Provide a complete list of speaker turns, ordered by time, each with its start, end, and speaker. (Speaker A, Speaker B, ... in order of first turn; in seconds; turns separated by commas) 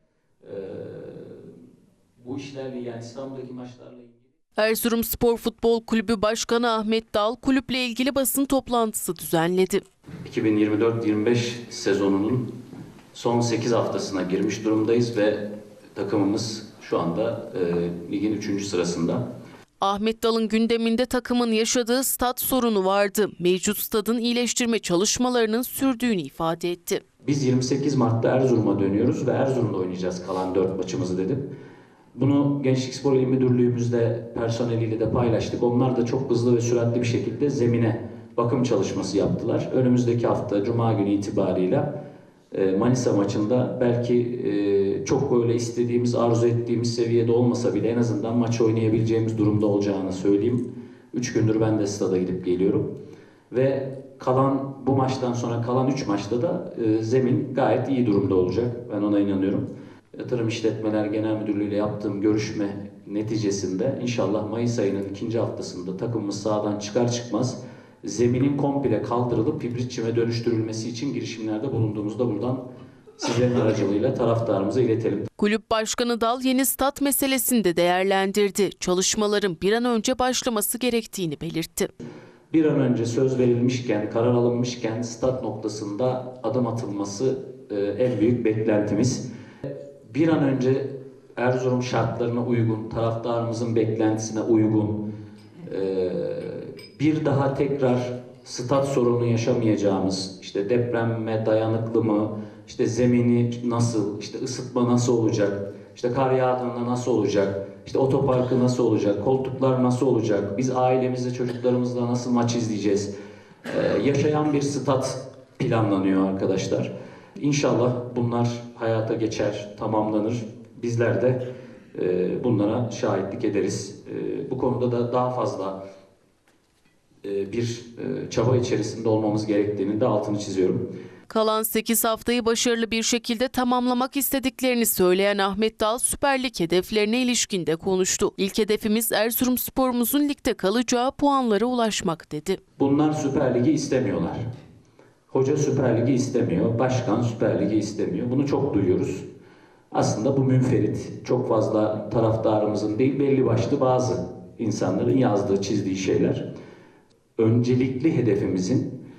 Speaker A: 0.4-1.5, Speaker A: 2.2-4.2, Speaker B: 4.6-9.8, Speaker A: 10.2-12.5, Speaker A: 13.1-15.4, Speaker A: 15.9-19.2, Speaker B: 19.8-27.0, Speaker A: 27.2-31.5, Speaker A: 32.1-41.9, Speaker A: 42.5-52.9, Speaker A: 53.5-72.7, Speaker A: 73.2-75.3, Speaker B: 75.4-81.9, Speaker A: 82.5-89.2, Speaker A: 90.0-95.0, Speaker A: 95.6-113.1, Speaker A: 113.7-121.4, Speaker A: 121.9-125.8, Speaker A: 127.2-130.8, Speaker B: 131.3-142.6, Speaker A: 142.8-144.5, Speaker A: 145.3-149.3, Speaker A: 149.9-156.4, Speaker A: 157.4-159.0